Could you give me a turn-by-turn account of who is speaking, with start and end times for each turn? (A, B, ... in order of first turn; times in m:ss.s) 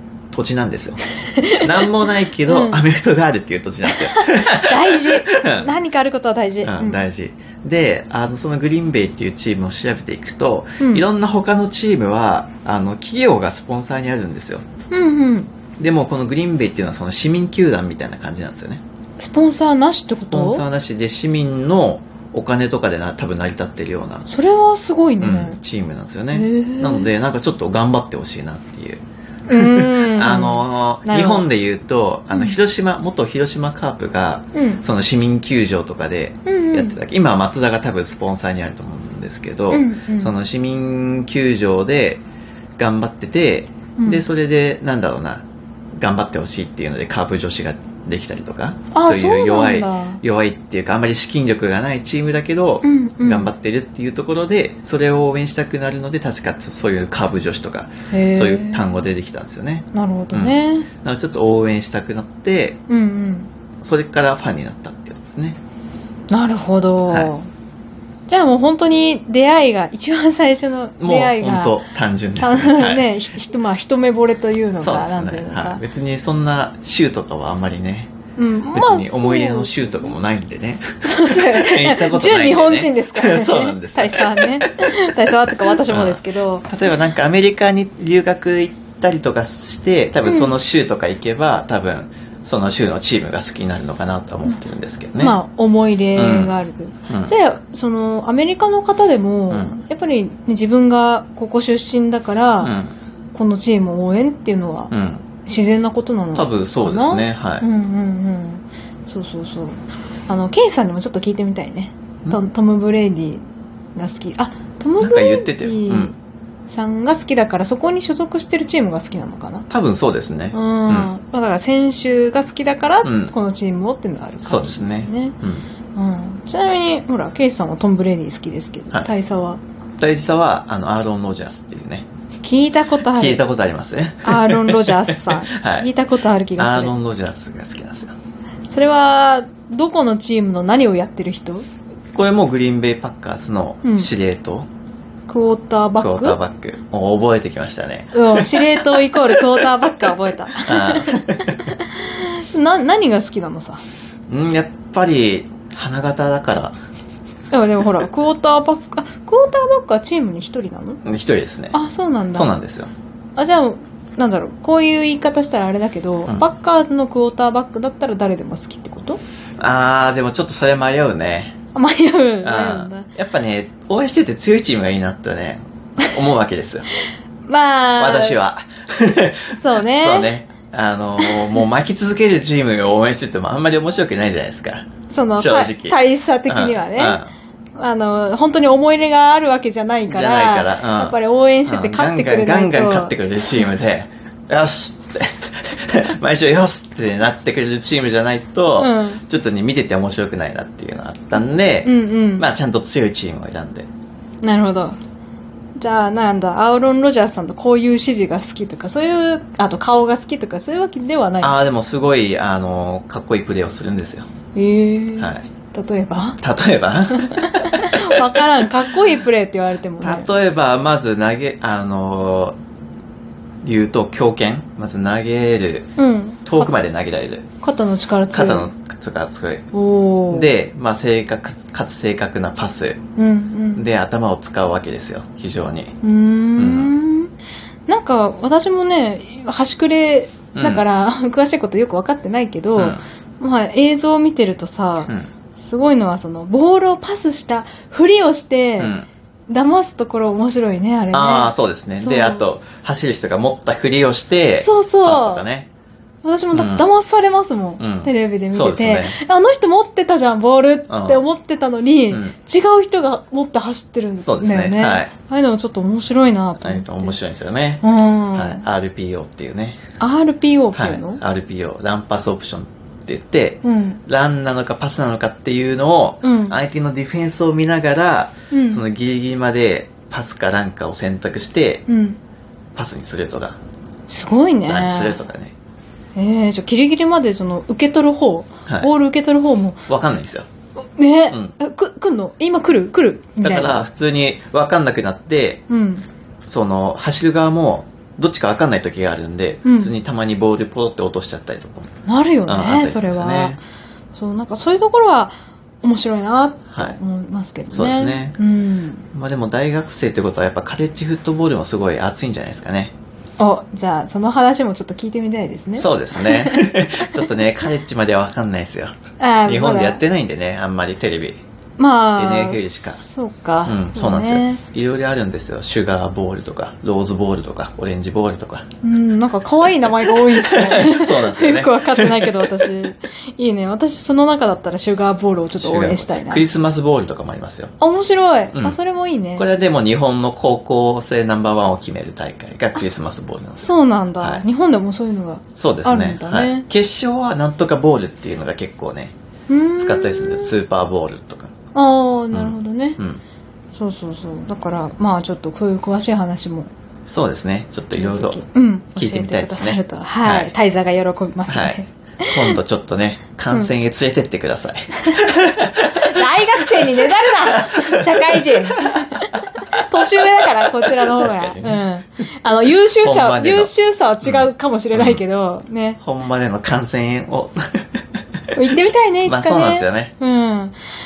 0:00.3-0:01.0 A
0:01.3-0:02.8 B
0:01.6-0:05.7 A
0:03.9-0:07.0 B
0:06.6-0:14.6 A
0:10.8-0:11.0 B
0:14.9-0:15.5 B
0:15.8-0:18.8 A
0:19.2-0:20.6 B
0:20.1-0:24.3 A
0:24.3-0:25.6 B
0:25.2-0:42.2 A
0:26.3-0:27.1 B
0:29.5-0:31.4 B
0:32.3-0:32.6 B
0:34.5-0:34.8 B
0:36.4-0:37.0 B
0:39.7-0:40.3 B
0:42.8-0:45.4 A
0:44.0-0:44.2 B
0:46.0-1:02.8 A
0:48.9-0:50.2 B
0:52.8-0:53.5 B
0:58.1-0:58.9 B
0:59.9-1:00.9 B
1:02.9-1:03.5 B
1:03.8-1:05.6 A
1:06.3-1:07.5 B
1:08.3-1:11.8 B
1:11.0-1:13.1 A
1:12.4-1:15.8 B
1:14.8-1:18.1 A
1:18.4-1:20.2 B
1:18.7-1:35.4 A
1:21.0-1:26.7 B
1:30.2-1:30.5 B
1:35.2-1:42.7 B
1:36.2-1:36.6 A
1:37.1-1:37.3 A
1:39.5-1:39.8 A
1:42.6-1:42.9 A
1:43.3-1:53.4 B
1:44.9-1:45.2 A
1:46.3-1:47.6 A
1:53.9-1:59.6 B
1:55.0-1:56.1 A
1:59.7-2:01.1 A
2:00.5-2:05.4 B
2:03.0-2:03.3 A
2:04.4-2:05.7 A
2:05.9-2:09.6 B
2:10.0-2:12.0 A
2:12.4-2:13.4 B
2:13.1-2:15.9 A
2:14.2-2:17.0 B
2:16.6-2:18.2 A
2:18.7-2:21.6 B
2:22.1-2:24.7 A
2:23.8-2:24.1 B
2:25.3-2:26.4 B
2:26.0-2:31.6 A
2:28.1-2:33.8 B
2:34.3-2:36.8 A
2:37.5-2:41.0 B
2:41.0-2:41.8 A
2:41.7-2:42.5 B
2:42.3-2:42.9 A
2:43.4-2:49.2 B
2:49.6-2:51.5 A
2:51.7-2:53.1 B
2:52.4-2:56.9 A
2:57.5-2:58.4 B
2:58.0-3:07.3 A
2:59.5-3:00.3 B
3:01.2-3:01.6 B
3:05.1-3:07.2 B
3:07.8-3:13.2 B
3:10.1-3:23.9 A
3:18.8-3:19.2 B
3:21.4-3:22.4 B
3:24.4-3:25.0 B
3:25.8-3:31.5 B
3:31.4-3:34.3 A
3:34.5-3:36.4 B
3:35.2-3:35.5 A
3:36.4-3:38.4 A
3:37.1-3:40.3 B
3:40.0-3:42.6 A
3:43.6-3:45.9 A
3:46.0-3:46.7 B
3:46.4-3:47.4 A
3:47.6-3:48.7 B
3:48.3-3:49.7 A
3:49.7-3:50.5 B
3:50.3-3:53.0 A
3:53.2-3:53.8 B
3:53.8-3:56.0 A
3:56.0-3:57.3 B
3:56.6-3:56.9 A
3:57.9-4:08.9 B
4:00.5-4:00.8 A
4:02.8-4:03.0 A
4:08.8-4:09.1 A
4:09.5-4:12.5 B
4:11.1-4:15.7 A
4:14.6-4:15.5 B
4:16.2-4:27.2 B
4:16.5-4:16.8 A
4:17.8-4:19.2 A
4:20.9-4:21.2 A
4:22.1-4:22.3 A
4:24.2-4:25.1 A
4:26.6-4:29.8 A
4:27.8-4:28.6 B
4:30.0-4:31.2 B
4:30.7-4:41.8 A
4:33.6-4:34.0 B
4:36.2-4:36.6 B
4:38.5-4:38.8 B
4:41.9-4:42.2 B
4:42.7-4:43.6 A
4:44.1-4:45.2 B
4:44.6-4:45.5 A
4:46.2-4:49.8 B
4:49.9-4:50.4 A
4:51.0-4:53.9 B
4:53.4-4:55.6 A
4:55.7-4:56.0 B
4:56.4-5:01.9 A
4:59.6-4:59.9 B
5:02.0-5:03.6 B
5:02.5-5:03.6 A
5:04.2-5:09.1 B
5:06.7-5:07.0 A
5:07.7-5:08.4 A
5:09.1-5:12.9 A
5:13.4-5:17.2 B
5:15.8-5:18.9 A
5:19.2-5:20.0 B
5:19.4-5:21.4 A
5:21.8-5:24.6 B
5:22.2-5:23.0 A
5:23.6-5:28.6 A
5:28.8-5:36.4 B
5:30.0-5:32.7 A
5:35.6-5:37.7 A
5:37.8-5:39.5 B
5:39.4-5:43.7 A
5:43.6-5:46.7 B
5:45.6-5:49.1 A
5:49.5-5:50.5 B
5:49.8-5:51.5 A
5:51.7-5:53.0 B
5:52.3-5:53.2 A
5:53.7-5:56.7 B
5:57.0-5:58.4 A
5:57.9-6:02.6 B
5:58.9-6:00.5 A
6:01.5-6:06.2 A
6:05.1-6:16.0 B
6:06.8-6:09.8 A
6:10.4-6:11.8 A
6:13.0-6:13.7 A
6:14.2-6:15.2 A
6:16.0-6:18.0 A
6:18.5-6:20.8 B
6:18.7-6:20.1 A